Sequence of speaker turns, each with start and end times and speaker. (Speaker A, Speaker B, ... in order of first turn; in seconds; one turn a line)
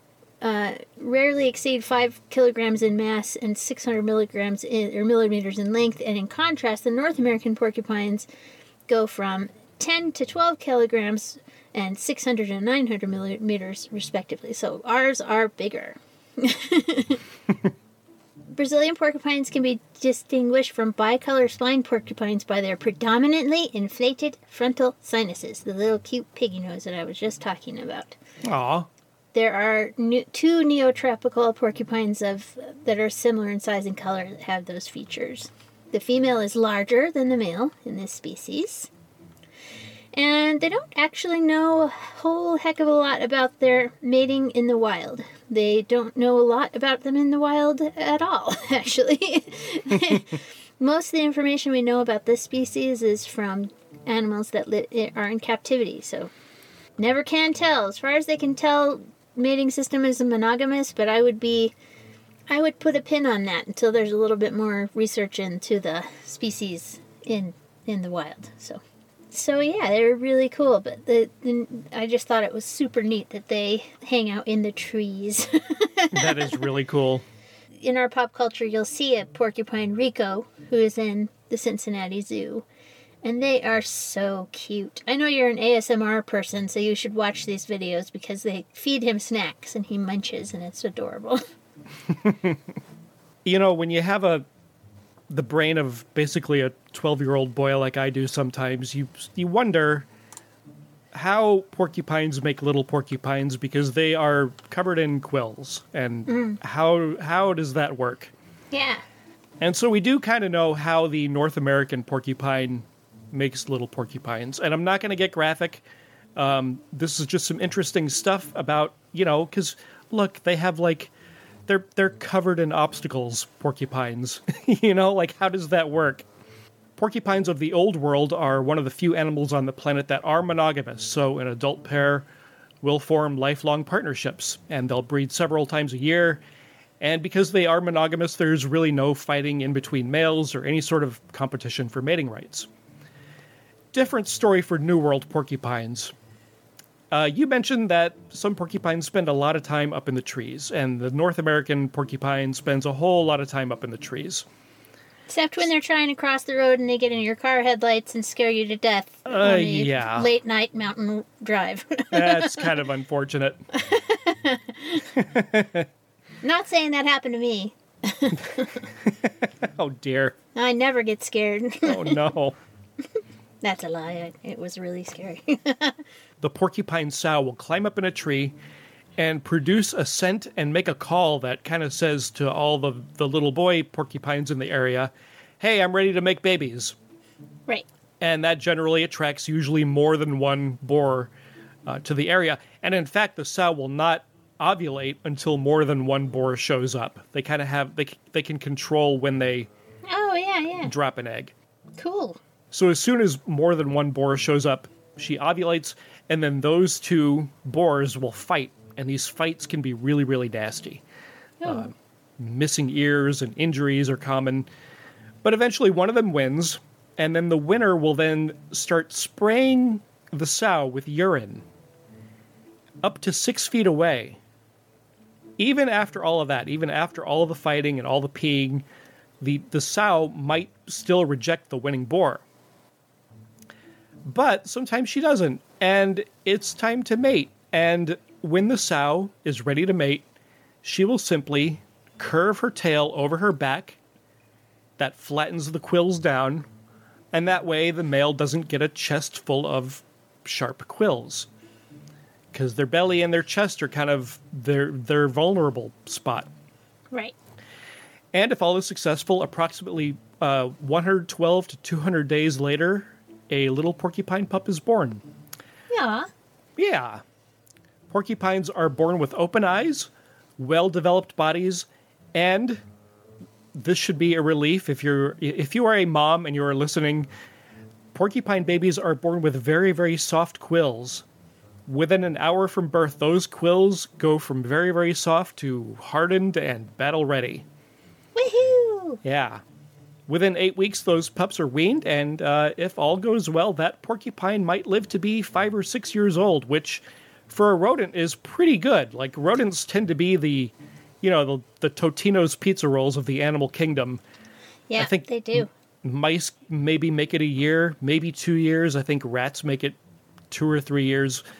Speaker A: 0.4-8.3
Speaker A: 8.9-17.2
Speaker A: 18.5-28.1
Speaker B: 28.4-28.9
Speaker A: 29.3-38.9
Speaker A: 40.1-56.3
Speaker A: 57.0-61.7
Speaker A: 62.5-76.6
Speaker B: 76.1-77.2
Speaker A: 77.8-82.7
Speaker A: 83.2-91.4
Speaker B: 92.2-92.6
Speaker B: 93.4-94.5
Speaker B: 95.3-100.1
Speaker B: 101.1-108.3
Speaker A: 106.3-106.6
Speaker A: 108.7-109.0
Speaker B: 109.6-115.8
Speaker B: 116.3-121.1
Speaker B: 121.7-126.2
Speaker B: 127.0-132.2
Speaker B: 132.8-136.4
Speaker B: 137.0-142.7
Speaker B: 143.9-146.1
Speaker B: 147.1-154.4
Speaker A: 155.3-162.7
Speaker B: 159.3-160.3
Speaker B: 162.1-163.6
Speaker A: 163.7-165.0
Speaker B: 165.2-165.9
Speaker A: 166.4-168.8
Speaker B: 169.0-170.3
Speaker A: 170.5-172.2
Speaker B: 171.8-172.6
Speaker A: 173.6-176.0
Speaker B: 176.4-178.5
Speaker B: 179.2-186.9
Speaker B: 188.2-191.3
Speaker B: 191.8-199.7
Speaker A: 200.1-200.9
Speaker B: 200.8-201.5
Speaker A: 202.0-202.4
Speaker B: 202.7-211.0
Speaker A: 211.6-211.9
Speaker B: 211.6-214.7
Speaker B: 215.4-221.6
Speaker B: 223.0-224.4
Speaker B: 225.6-228.8
Speaker B: 229.4-232.4
Speaker B: 234.2-240.2
Speaker B: 240.8-244.0
Speaker B: 245.0-246.7
Speaker B: 247.3-251.5
Speaker B: 252.5-256.5
Speaker B: 258.3-265.2
Speaker A: 265.9-266.3
Speaker B: 266.8-267.2
Speaker B: 268.1-272.8
Speaker B: 273.7-277.3
Speaker B: 278.1-281.2
Speaker B: 281.9-287.6
Speaker A: 288.4-289.2
Speaker B: 289.2-289.6
Speaker B: 290.3-304.2
Speaker A: 304.9-305.7
Speaker B: 305.0-310.0
Speaker B: 310.5-311.4